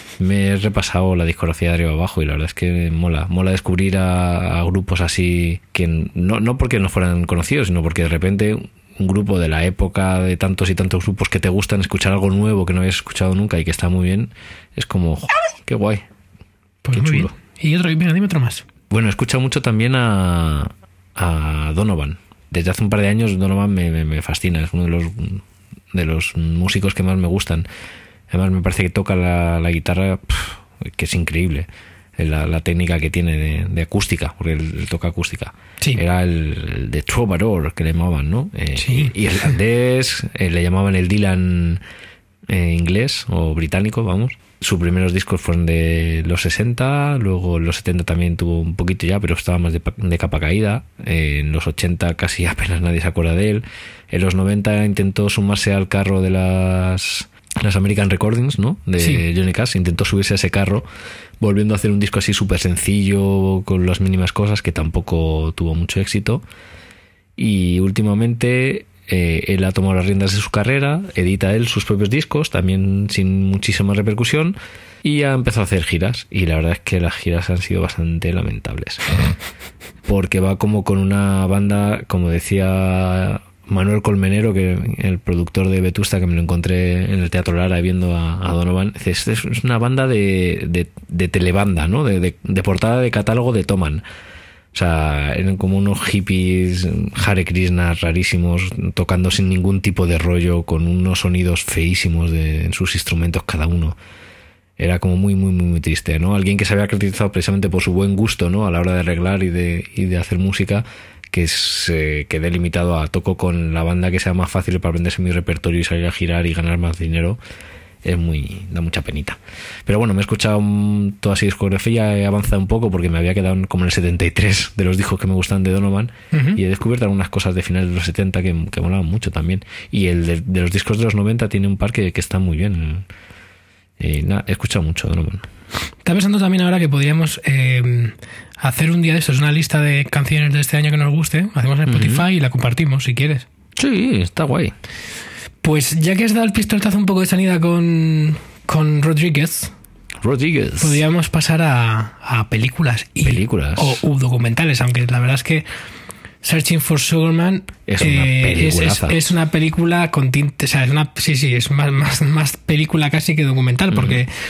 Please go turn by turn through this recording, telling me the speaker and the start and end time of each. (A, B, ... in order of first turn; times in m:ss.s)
0:00.2-0:16.0 A
0:16.8-0:18.6 B
0:16.9-0:17.3 A
0:18.9-0:27.7 A
0:28.3-0:41.8 A
0:38.8-0:39.2 B
0:42.5-1:00.8 A
1:01.4-1:06.4 A
1:07.4-1:19.2 A
1:20.1-1:34.0 A
1:34.7-1:44.0 A
1:44.8-1:57.4 A
1:58.0-2:13.1 A
2:06.3-2:06.6 B
2:14.0-2:15.5 A
2:16.0-2:23.5 B
2:21.9-2:22.2 A
2:23.8-2:24.7 A
2:25.6-2:29.7 B
2:30.2-2:31.0 A
2:30.8-2:35.7 B
2:33.2-2:34.0 A
2:36.4-2:44.3 B
2:37.9-2:39.2 A
2:43.9-2:44.2 A